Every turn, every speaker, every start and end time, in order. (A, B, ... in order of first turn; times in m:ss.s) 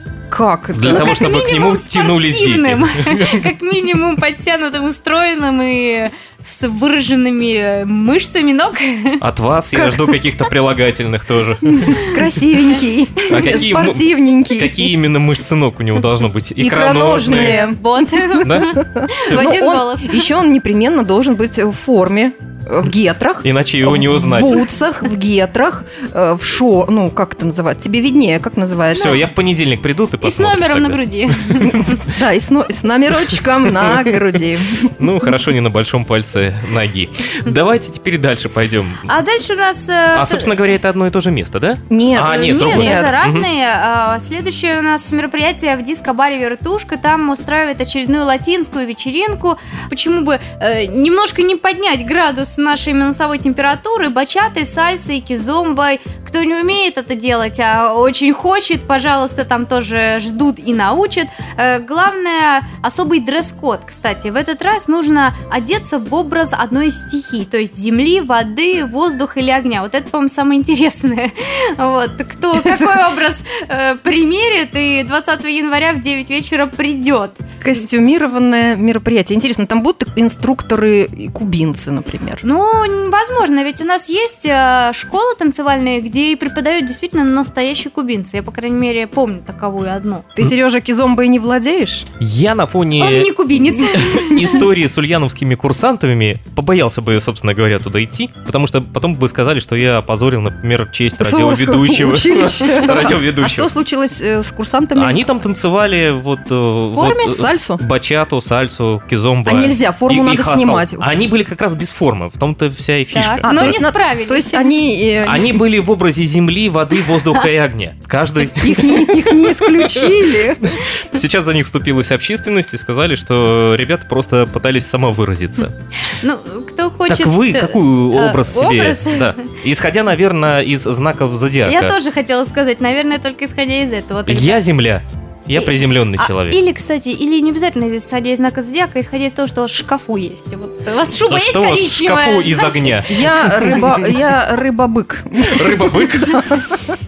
0:00.3-0:01.3 A
0:00.7-0:03.5 B
0:00.9-0:09.2 C
0:09.2-0:12.2 B
0:09.7-0:10.1 A
0:11.7-0:14.9 A
0:13.2-0:13.6 C
0:13.3-0:17.7 B
0:16.6-0:29.2 A
0:17.4-0:20.3 C
0:18.4-0:18.8 B
0:23.4-0:24.7 B
0:28.9-0:32.0 B
0:30.2-0:32.0 C
0:31.8-0:34.9 A
0:33.2-0:34.2 B
0:35.0-0:39.1 B
0:39.1-0:40.5 C
0:40.1-0:43.5 B
0:41.9-0:43.2 A
0:42.2-1:17.4 C
1:17.6-1:22.4 A
1:22.4-1:30.4 C
1:30.4-1:32.1 A
1:32.2-1:43.7 B
1:33.0-1:34.6 C
1:41.2-1:45.2 A
1:45.0-1:53.8 B
1:46.9-1:47.8 A
1:47.0-1:47.4 C
1:49.5-1:51.1 A
1:53.1-1:54.8 C
1:53.4-1:55.6 A
1:55.2-2:05.8 B
1:58.6-2:00.8 A
2:06.2-2:09.5 C
2:07.1-2:11.9 B
2:11.6-2:14.6 C
2:14.3-2:16.6 B
2:15.6-2:23.0 C
2:21.2-2:24.2 B
2:23.1-2:27.0 A
2:25.4-2:26.7 B